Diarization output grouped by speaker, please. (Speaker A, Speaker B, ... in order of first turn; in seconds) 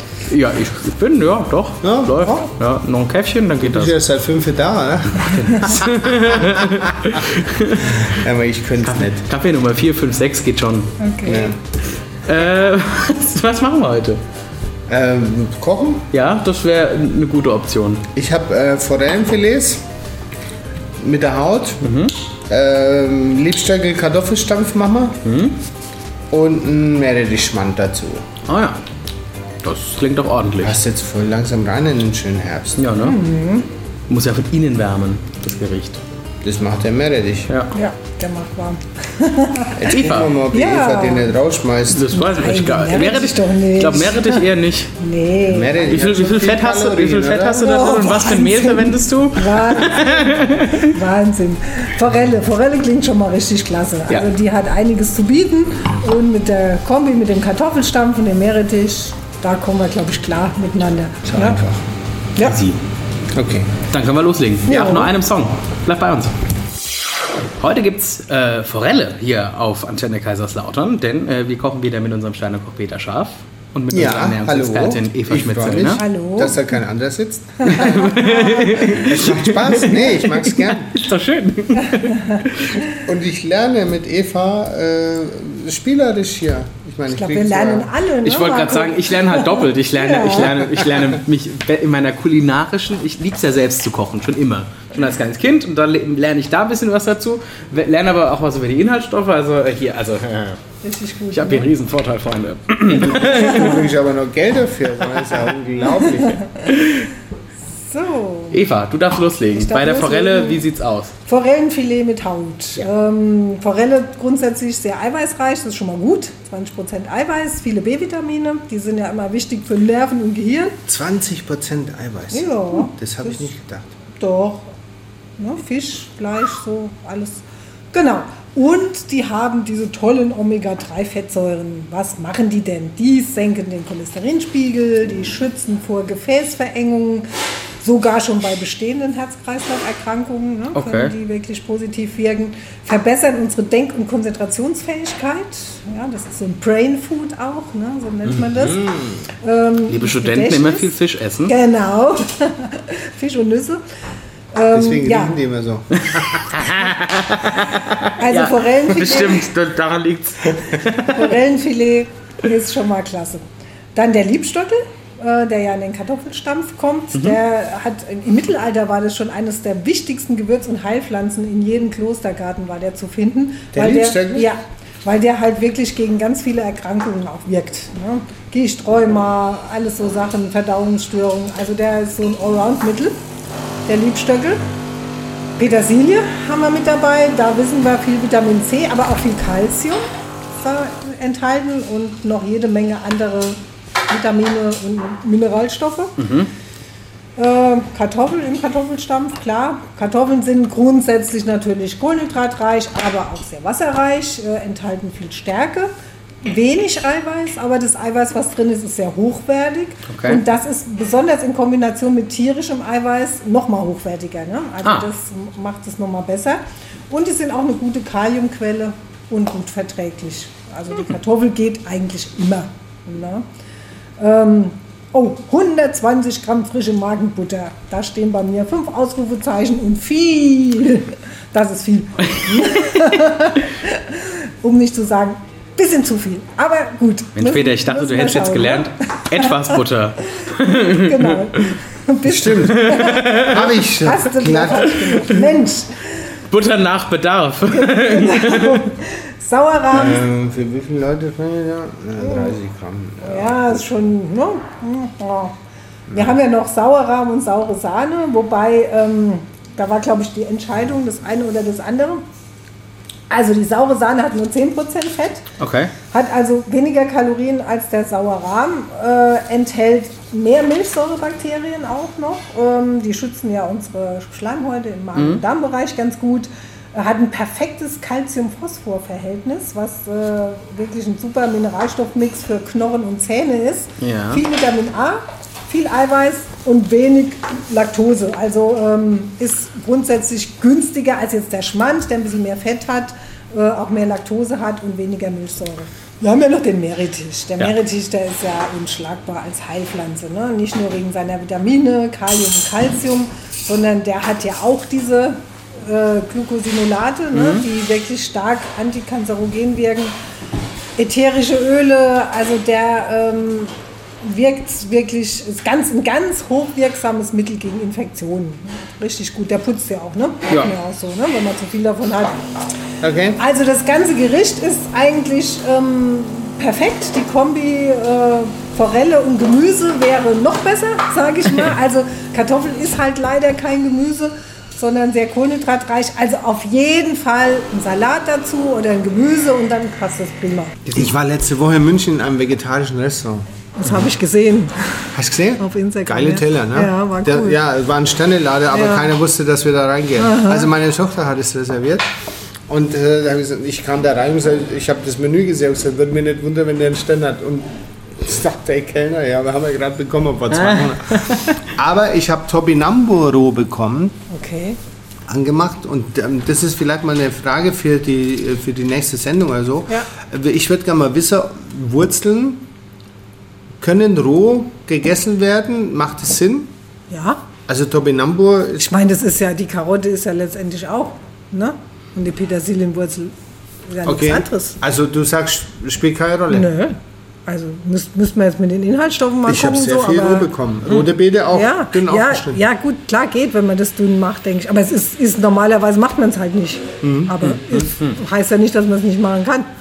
Speaker A: 0.3-4.0, 5.2-8.1, 8.8-10.9, 12.2-14.2, 16.1-18.0, 21.8-22.1, 25.2-25.6, 28.5-28.8, 29.6-30.8, 32.8-33.2, 34.1-36.0, 37.5-37.7, 39.8-40.3, 41.9-44.9, 45.9-50.9, 62.4-62.8, 63.9-66.3, 67.6-76.0, 77.7-82.8, 88.2-100.6, 101.3-103.8, 106.7-107.0, 108.5-111.1, 140.7-141.1, 148.2-148.7, 149.9-151.5, 156.0-161.3, 196.2-196.5, 210.1-210.4, 232.5-233.0, 237.3-241.3, 242.8-243.6, 246.5-248.8, 265.6-265.9, 275.1-275.4, 284.0-284.4, 307.3-307.6, 360.5-361.6, 397.4-398.2
Speaker B: 1.8-2.2, 3.6-6.5, 7.8-9.3, 11.2-11.6, 14.9-16.1, 18.1-19.8, 21.0-21.8, 22.5-25.2, 26.3-28.2, 30.6-32.8, 36.4-37.5, 39.7-42.1, 45.4-47.9, 61.2-61.8, 63.3-63.7, 73.9-80.9, 83.0-87.9, 102.9-106.4, 120.9-123.9, 148.6-149.2, 154.7-156.4, 173.7-174.5, 242.2-244.9, 249.9-253.9, 256.1-256.4, 323.0-323.4, 340.9-343.4, 345.1-352.1, 352.7-357.7, 358.2-364.1, 365.3-372.6, 373.8-376.7, 377.7-378.9, 384.0-386.7, 389.4-392.6, 397.0-397.3
Speaker C: 2.2-2.5, 11.0-11.5, 33.0-33.7, 37.7-39.8, 40.5-41.4, 42.1-46.0, 47.5-61.6, 64.7-65.1, 75.9-76.6, 77.7-79.0, 81.9-82.4, 87.1-90.5, 100.8-101.7, 106.0-106.5, 107.8-108.6, 109.5-110.6, 111.2-120.8, 122.3-122.9, 124.2-124.7, 125.4-137.3, 137.8-153.8, 154.5-155.4, 158.2-159.5, 160.8-183.2, 183.8-184.6, 185.6-196.2, 197.3-205.9, 206.4-223.4, 224.2-239.8, 240.5-246.0, 247.7-250.2, 252.2-252.5, 253.2-255.5, 256.1-262.2, 263.3-265.4, 266.1-310.1, 310.9-322.4, 323.4-340.8, 343.8-347.6, 348.7-349.1, 350.2-350.7, 364.3-364.8, 377.1-377.4, 378.8-383.3, 383.9-384.8, 386.5-390.5, 391.5-399.7